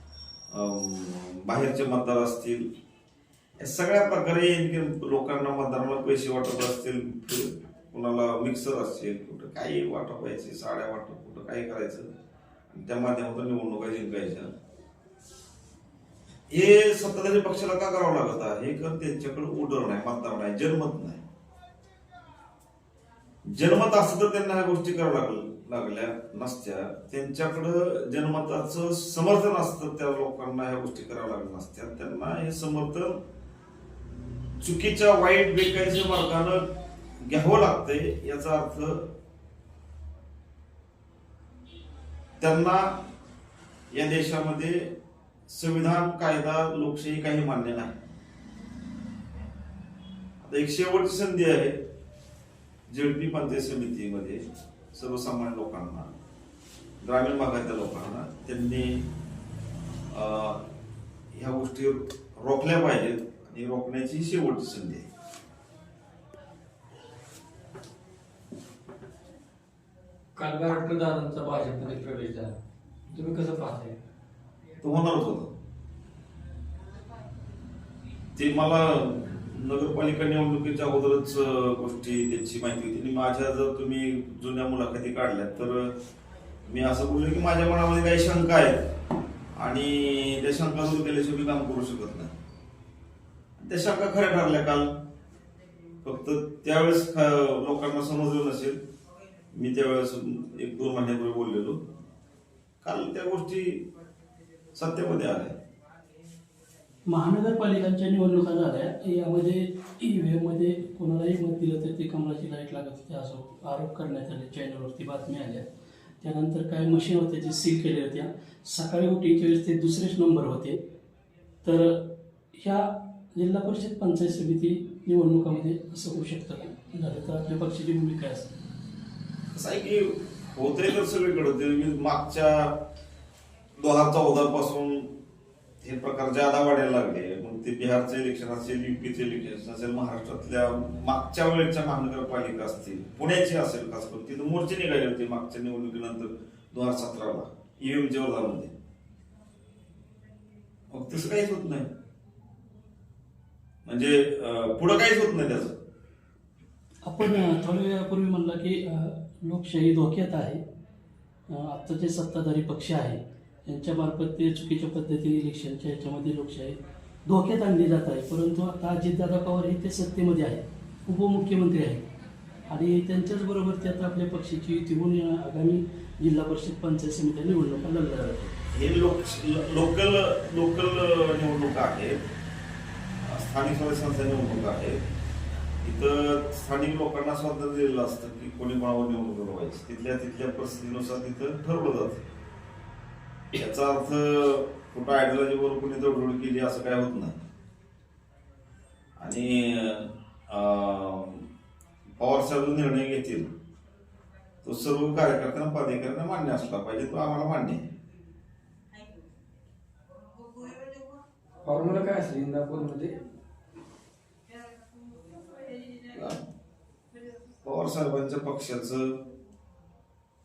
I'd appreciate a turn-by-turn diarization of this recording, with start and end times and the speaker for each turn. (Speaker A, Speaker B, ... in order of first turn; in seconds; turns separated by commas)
Speaker A: 0.5-2.7, Speaker A: 3.6-12.1, Speaker A: 12.7-14.5, Speaker A: 16.5-21.2, Speaker A: 23.5-33.2, Speaker A: 34.6-39.1, Speaker A: 42.4-43.0, Speaker A: 43.9-44.9, Speaker A: 45.5-48.0, Speaker A: 50.4-51.8, Speaker A: 52.9-54.4, Speaker A: 54.9-56.1, Speaker A: 57.0-59.1, Speaker A: 60.1-60.6, Speaker A: 61.3-65.0, Speaker B: 70.3-72.5, Speaker B: 73.1-73.9, Speaker A: 74.8-75.5, Speaker A: 78.3-85.9, Speaker A: 86.7-88.9, Speaker A: 89.5-92.3, Speaker A: 93.6-94.9, Speaker A: 96.0-98.8, Speaker A: 99.5-101.8, Speaker A: 102.8-103.8, Speaker A: 104.7-105.5, Speaker C: 107.1-115.7, Speaker C: 116.2-120.8, Speaker C: 121.6-128.5, Speaker A: 129.5-132.8, Speaker A: 133.8-135.1, Speaker A: 135.8-148.7, Speaker A: 150.9-151.9, Speaker A: 153.8-155.8, Speaker C: 157.0-160.6, Speaker C: 161.5-172.1, Speaker C: 172.7-178.5, Speaker A: 178.7-182.2, Speaker A: 183.2-185.0, Speaker A: 185.8-192.2, Speaker A: 193.5-197.4, Speaker A: 199.2-201.4, Speaker A: 202.2-203.5, Speaker A: 204.6-207.8, Speaker B: 211.6-213.1, Speaker A: 216.1-216.4, Speaker A: 217.6-219.1